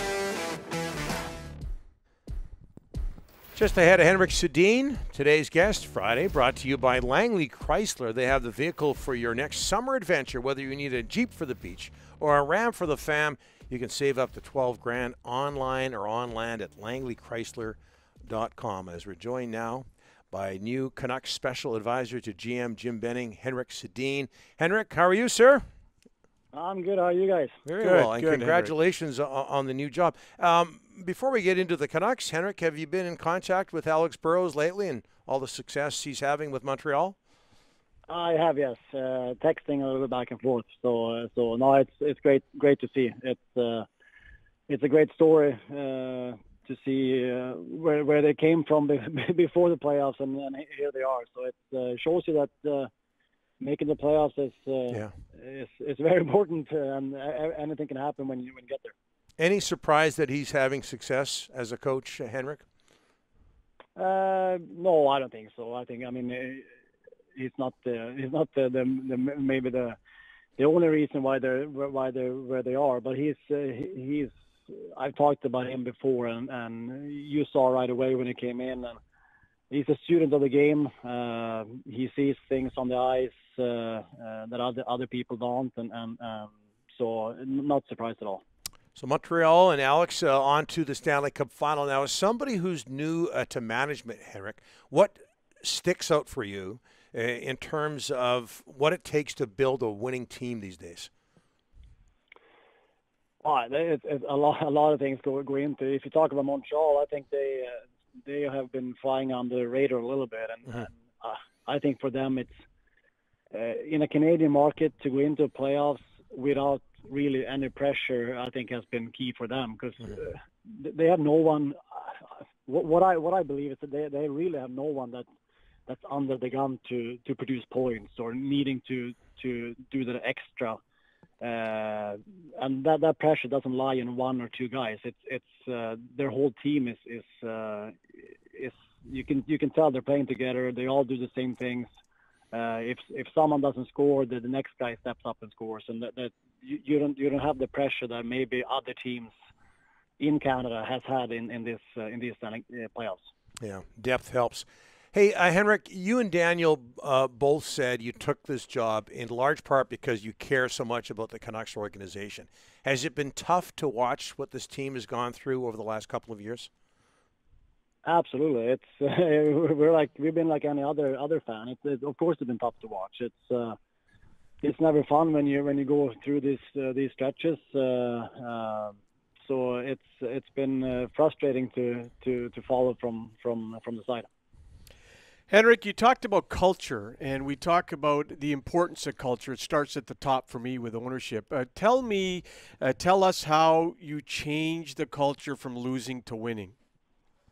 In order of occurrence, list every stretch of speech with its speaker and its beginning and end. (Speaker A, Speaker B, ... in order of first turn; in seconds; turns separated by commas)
Speaker A: 3.5-25.6, Speaker B: 26.5-27.6, Speaker A: 27.7-37.1, Speaker C: 27.8-28.7, Speaker B: 38.1-43.9, Speaker B: 44.7-52.9, Speaker B: 53.6-59.0, Speaker A: 59.4-62.6, Speaker B: 64.0-66.7, Speaker B: 67.3-70.0, Speaker B: 70.6-79.0, Speaker B: 79.7-88.4, Speaker A: 89.0-101.1, Speaker B: 103.4-112.5, Speaker B: 113.5-125.2, Speaker B: 125.9-130.8, Speaker B: 131.4-141.9, Speaker B: 142.5-149.3, Speaker B: 150.2-153.3, Speaker A: 153.6-166.7, Speaker B: 168.1-173.8, Speaker B: 174.6-184.3, Speaker C: 185.5-196.7